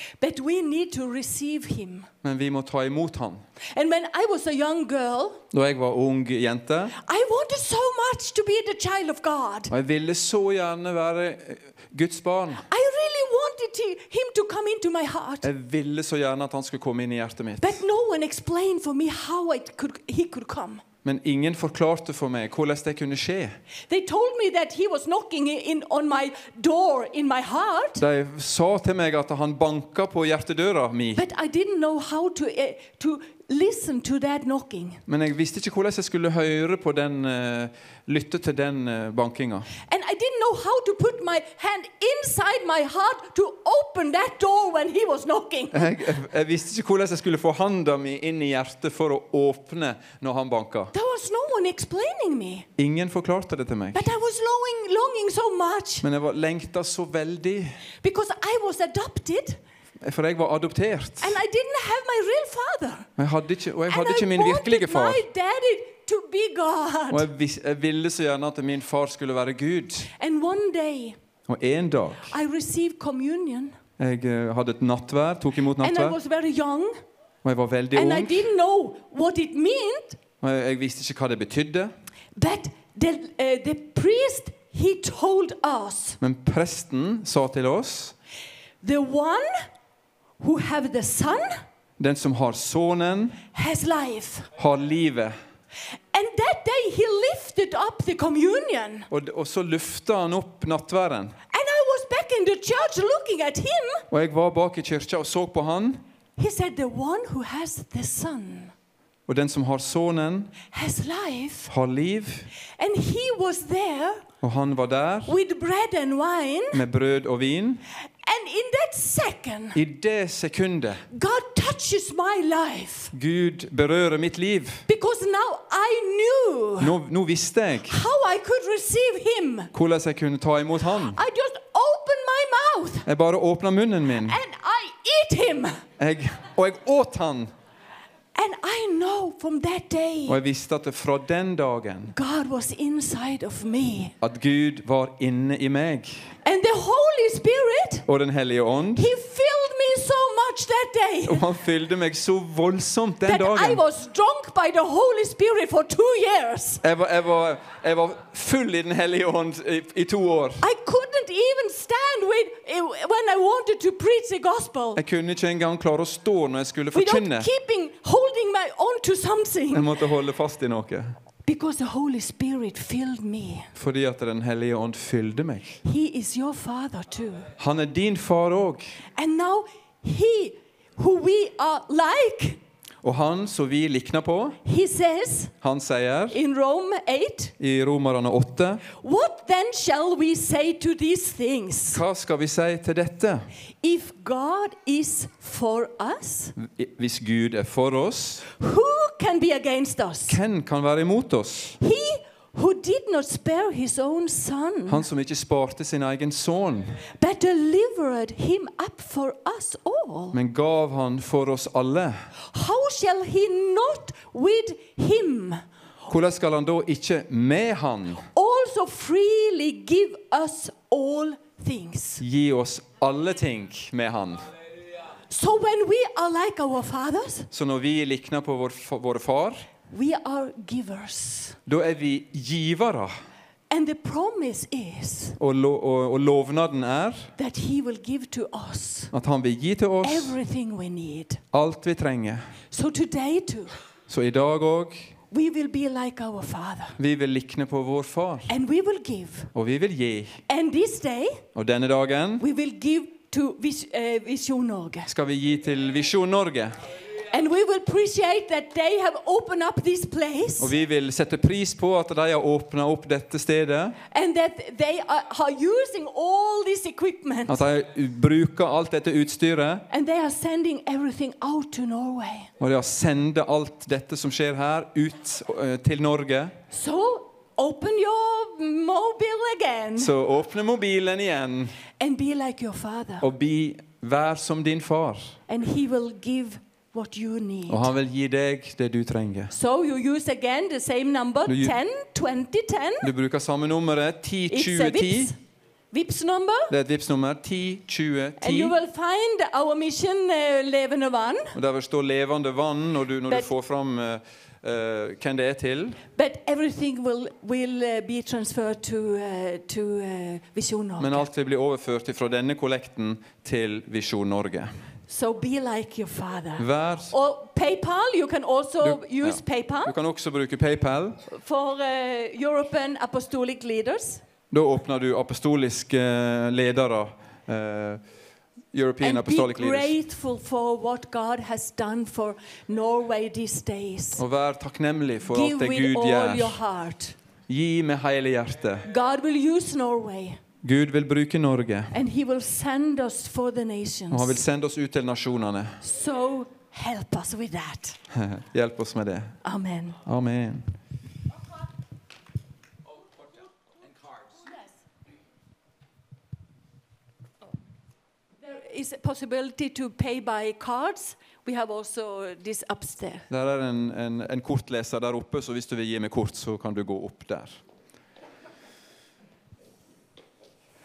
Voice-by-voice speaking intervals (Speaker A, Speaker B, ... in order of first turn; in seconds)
Speaker A: 0.2-2.1, 3.7-5.4, 7.0-9.7, 12.7-15.5, 17.6-20.8, 23.9-28.0, 31.2-35.0, 39.9-45.9, 50.9-52.7, 53.9-56.0, 58.0-59.6, 61.2-63.1, 63.9-67.3, 70.2-71.2, 72.3-73.8, 75.8-77.0, 77.9-80.2, 82.4-86.2, 88.8-89.6, 90.4-91.6, 93.5-94.5, 96.1-99.1, 101.5-104.0, 106.4-108.7, 110.6-111.7, 112.8-114.2, 115.3-116.8, 118.2-119.8, 121.1-123.1, 124.9-127.0, 127.9-129.7, 131.1-133.1, 134.2-135.8, 138.3-140.4, 142.1-144.1, 146.4-148.1, 149.0-151.4, 153.3-156.8, 160.6-165.0, 166.9-170.0, 171.4-173.7, 175.8-177.5, 179.2-182.6, 184.7-185.5, 186.3-187.5, 188.9-192.0, 193.8-196.5, 198.5-200.4, 201.8-205.1, 207.1-210.4, 212.5-215.6, 218.3-222.2, 225.3-227.5, 229.9-231.6, 233.7-235.4, 237.4-239.1, 240.0-241.4, 242.7-243.7, 245.3-247.0, 248.5-249.5, 250.5-251.4, 252.4-255.1, 257.3-260.7, 264.1-267.6, 269.9-272.5, 276.7-280.1, 282.0-283.3, 285.5-287.9, 289.5-293.1, 294.5-295.4, 295.9-296.7, 298.4-301.5, 306.1-311.2, 315.1-319.9, 321.3-324.2, 329.0-334.2, 335.3-337.2, 338.9-340.4, 341.9-344.4, 345.8-348.0, 349.4-350.0, 358.4-363.3
Speaker B: 2.2-3.4, 5.5-7.0, 9.7-12.7, 15.4-17.8, 21.0-23.6, 28.0-31.2, 35.1-39.7, 45.7-50.9, 52.8-54.1, 56.0-57.8, 60.0-61.4, 63.2-65.2, 67.1-70.1, 71.5-72.3, 74.0-76.2, 77.4-78.5, 80.4-81.9, 86.2-88.2, 92.0-93.4, 94.6-95.4, 99.1-101.3, 104.1-106.0, 109.3-110.5, 111.7-112.5, 114.4-115.3, 116.7-117.8, 119.7-121.0, 123.1-124.8, 126.8-128.0, 129.7-131.2, 133.1-134.4, 136.0-137.5, 140.3-142.1, 144.2-146.3, 148.1-149.1, 151.3-153.8, 156.8-160.7, 165.0-167.5, 169.7-171.1, 173.8-175.8, 177.6-178.9, 183.0-184.6, 185.6-186.4, 187.6-188.8, 191.9-193.5, 196.6-198.4, 200.3-201.8, 204.9-207.0, 210.3-212.3, 216.1-218.2, 222.2-224.5, 227.5-229.7, 231.7-233.1, 235.4-237.3, 239.1-240.4, 241.5-242.4, 244.1-245.1, 247.0-248.5, 249.5-250.4, 251.6-252.4, 255.1-256.8, 260.6-264.0, 267.5-269.9, 272.6-276.5, 280.0-281.8, 283.2-285.4, 287.7-289.5, 291.5-291.8, 293.0-295.3, 296.7-298.8, 301.6-306.0, 311.0-314.7, 316.6-317.1, 318.8-321.2, 324.5-328.0, 328.7-329.9, 334.2-336.6, 337.5-338.9, 340.6-341.9, 344.1-345.8, 348.1-349.4, 350.1-350.7, 363.3-367.6